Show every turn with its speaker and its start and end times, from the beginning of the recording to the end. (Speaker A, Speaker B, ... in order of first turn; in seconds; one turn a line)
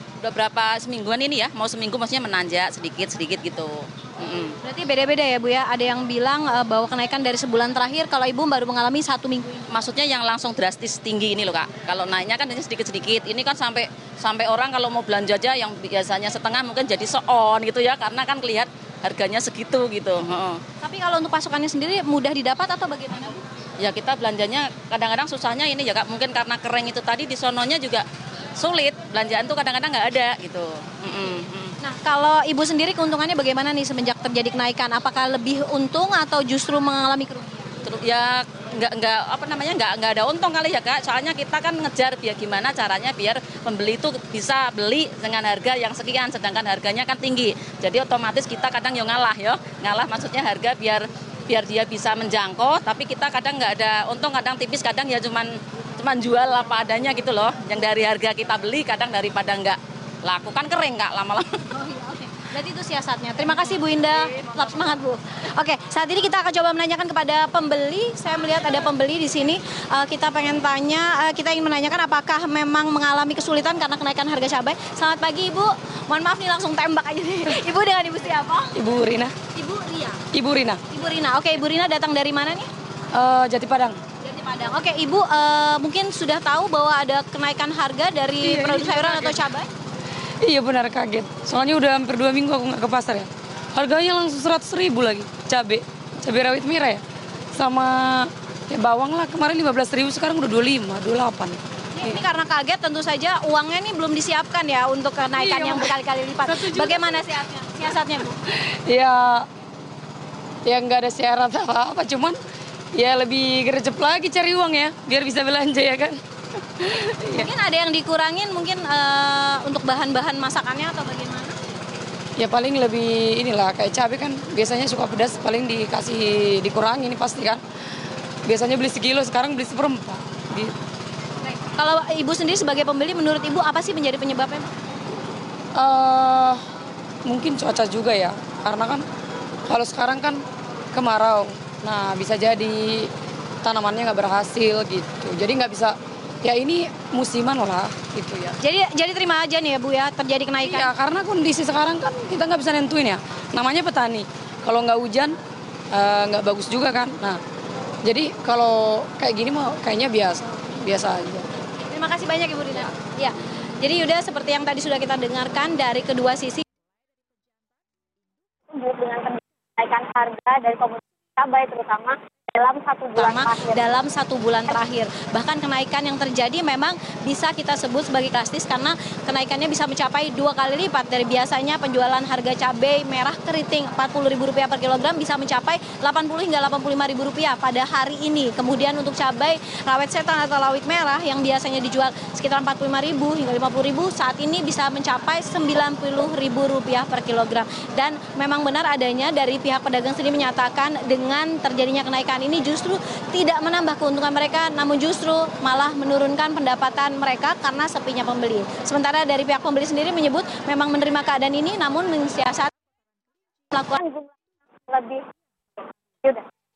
Speaker A: 0.2-4.6
Speaker B: 4.6-9.7
Speaker A: 9.7-20.6
Speaker B: 20.8-23.4
Speaker A: 23.8-31.7
Speaker B: 31.8-37.7
Speaker A: 37.8-61.5
Speaker B: 61.7-78.7
Speaker C: 78.8-79.3
Speaker B: 79.5-80.2
Speaker C: 80.3-80.8
Speaker B: 80.9-82.7
Speaker C: 83.1-84.0
Speaker B: 84.2-89.7
Speaker C: 88.4-89.4
Speaker C: 90.4-97.0
Speaker C: 97.5-102.2
Speaker B: 101.9-108.4
Speaker C: 105.3-107.1
Speaker C: 108.5-109.5
Speaker C: 110.7-112.4
Speaker C: 113.0-117.5
Speaker B: 117.3-121.6
Speaker C: 122.4-127.6
Speaker C: 128.5-130.8
Speaker B: 131.4-134.7
Speaker C: 135.8-136.6
Speaker C: 137.2-139.0
Speaker C: 139.7-140.4
Speaker C: 140.9-143.1
Speaker C: 143.6-148.6
Speaker B: 148.6-150.9
Speaker C: 150.6-155.4
Speaker C: 155.9-157.4
Speaker C: 158.0-161.5
Speaker B: 161.8-166.6
Speaker D: 168.7-173.8
Speaker B: 173.2-212.7
Speaker B: 213.7-214.0
Speaker D: 213.9-214.3
Speaker D: 214.9-215.2